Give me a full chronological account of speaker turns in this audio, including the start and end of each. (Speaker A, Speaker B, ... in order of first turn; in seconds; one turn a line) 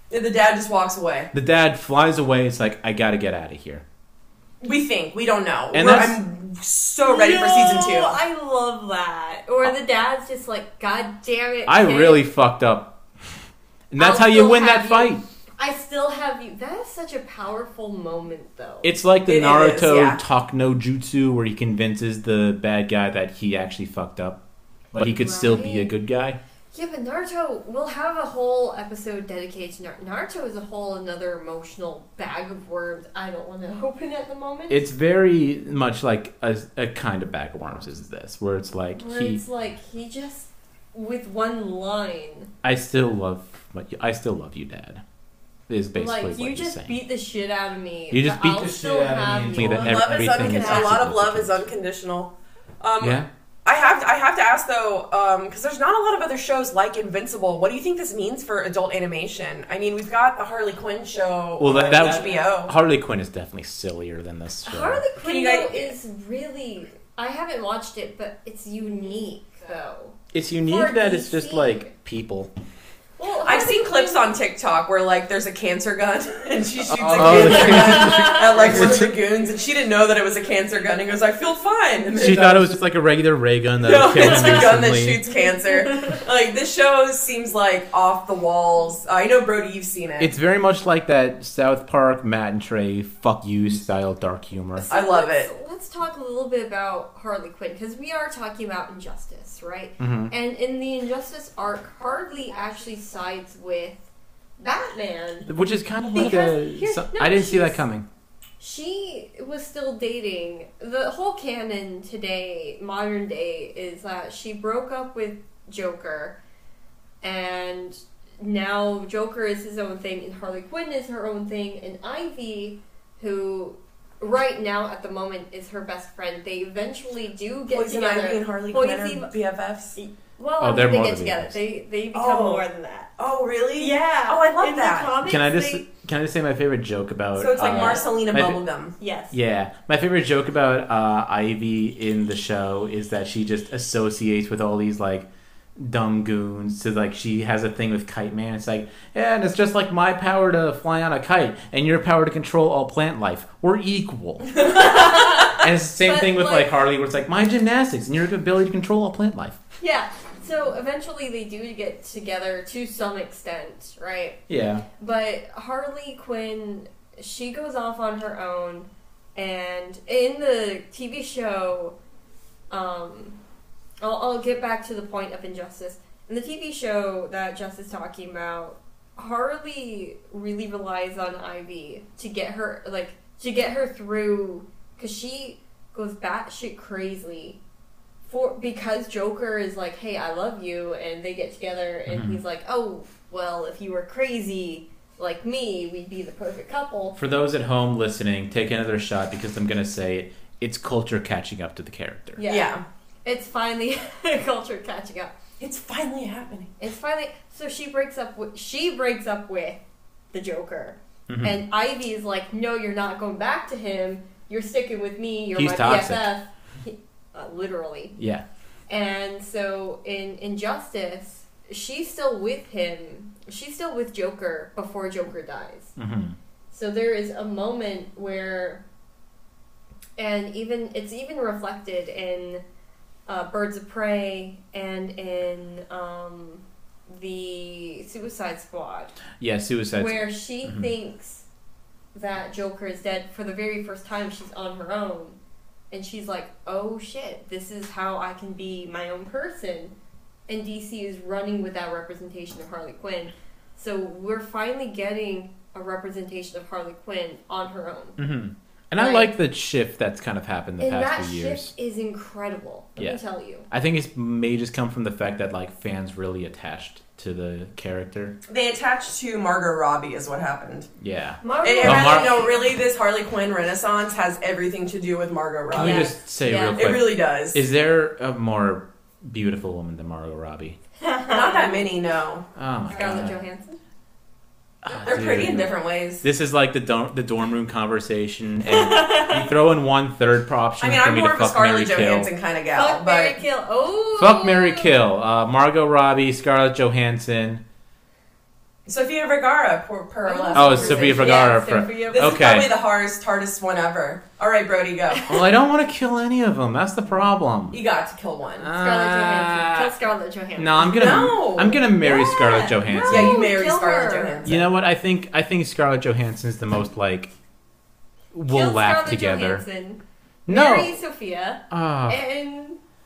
Speaker A: 0.1-1.3
Speaker B: 1.3-3.8
Speaker A: 4.6-8.2
Speaker B: 5.7-6.2
Speaker C: 7.0-12.2
Speaker B: 11.7-13.0
Speaker B: 13.9-15.2
Speaker C: 14.0-18.9
Speaker B: 18.8-24.4
Speaker A: 19.3-20.2
Speaker B: 24.9-26.4
Speaker C: 25.0-25.9
Speaker C: 26.7-34.8
Speaker B: 34.7-39.4
Speaker C: 39.0-42.5
Speaker B: 42.6-45.0
Speaker B: 45.7-47.0
Speaker C: 46.0-51.0
Speaker B: 48.1-51.7
Speaker A: 49.5-62.7
Speaker B: 53.0-53.3
Speaker B: 61.6-65.0
Speaker C: 64.7-71.9
Speaker A: 65.2-65.9
Speaker B: 70.3-72.5
Speaker C: 73.2-74.3
Speaker A: 73.4-82.7
Speaker B: 76.9-79.2
Speaker C: 77.2-79.0
Speaker B: 82.2-85.2
Speaker A: 83.8-90.3
Speaker C: 84.2-84.6
Speaker C: 85.7-86.2
Speaker B: 90.2-94.9
Speaker C: 94.8-105.5
Speaker A: 94.9-95.5
Speaker B: 100.0-100.3
Speaker B: 105.5-108.1
Speaker C: 106.1-107.9
Speaker C: 108.6-116.4
Speaker C: 117.2-129.3
Speaker A: 127.7-130.0
Speaker C: 130.0-133.1
Speaker B: 130.6-131.6
Speaker A: 132.1-132.6
Speaker A: 133.2-135.1
Speaker C: 133.8-135.9
Speaker B: 135.2-138.6
Speaker A: 137.4-138.9
Speaker C: 137.8-138.1
Speaker C: 139.0-139.4
Speaker B: 139.3-154.8
Speaker C: 154.6-156.8
Speaker B: 155.5-159.6
Speaker C: 159.8-164.4
Speaker B: 164.5-164.8
Speaker C: 165.0-172.0
Speaker C: 172.7-173.4
Speaker C: 174.0-187.6
Speaker C: 188.3-197.2
Speaker B: 192.1-192.4
Speaker B: 197.2-202.4
Speaker C: 202.4-202.7
Speaker A: 202.5-202.8
Speaker C: 203.2-205.3
Speaker A: 205.6-206.7
Speaker C: 206.8-209.8
Speaker C: 210.3-218.2
Speaker B: 211.3-211.6
Speaker B: 215.6-216.3
Speaker B: 218.2-218.4
Speaker C: 218.9-226.0
Speaker B: 226.0-226.4
Speaker C: 226.7-228.8
Speaker C: 230.2-232.6
Speaker C: 233.3-239.2
Speaker B: 239.4-240.9
Speaker C: 240.0-241.4
Speaker C: 242.1-245.4
Speaker C: 245.9-249.9
Speaker C: 250.5-258.2
Speaker B: 258.2-261.7
Speaker C: 259.0-259.3
Speaker C: 260.8-263.7
Speaker B: 263.0-268.4
Speaker A: 268.5-270.9
Speaker B: 271.0-272.5
Speaker C: 271.4-272.5
Speaker A: 271.6-276.1
Speaker B: 275.7-280.8
Speaker C: 275.8-276.8
Speaker A: 276.8-277.6
Speaker C: 281.0-281.9
Speaker A: 281.3-282.4
Speaker B: 282.6-283.4
Speaker C: 282.9-283.8
Speaker C: 284.9-285.2
Speaker B: 284.9-292.3
Speaker A: 284.9-286.2
Speaker C: 288.7-289.5
Speaker A: 290.8-293.4
Speaker C: 292.8-295.0
Speaker B: 294.2-297.6
Speaker A: 298.9-301.5
Speaker C: 300.2-302.4
Speaker B: 300.5-302.8
Speaker A: 302.1-305.3
Speaker B: 305.3-307.8
Speaker A: 307.7-308.7
Speaker B: 308.6-309.9
Speaker C: 308.7-311.0
Speaker B: 310.6-313.4
Speaker A: 310.8-311.8
Speaker C: 312.0-314.4
Speaker A: 313.1-314.7
Speaker B: 314.4-317.3
Speaker B: 318.3-319.6
Speaker C: 318.5-322.8
Speaker B: 320.5-320.9
Speaker B: 321.7-322.2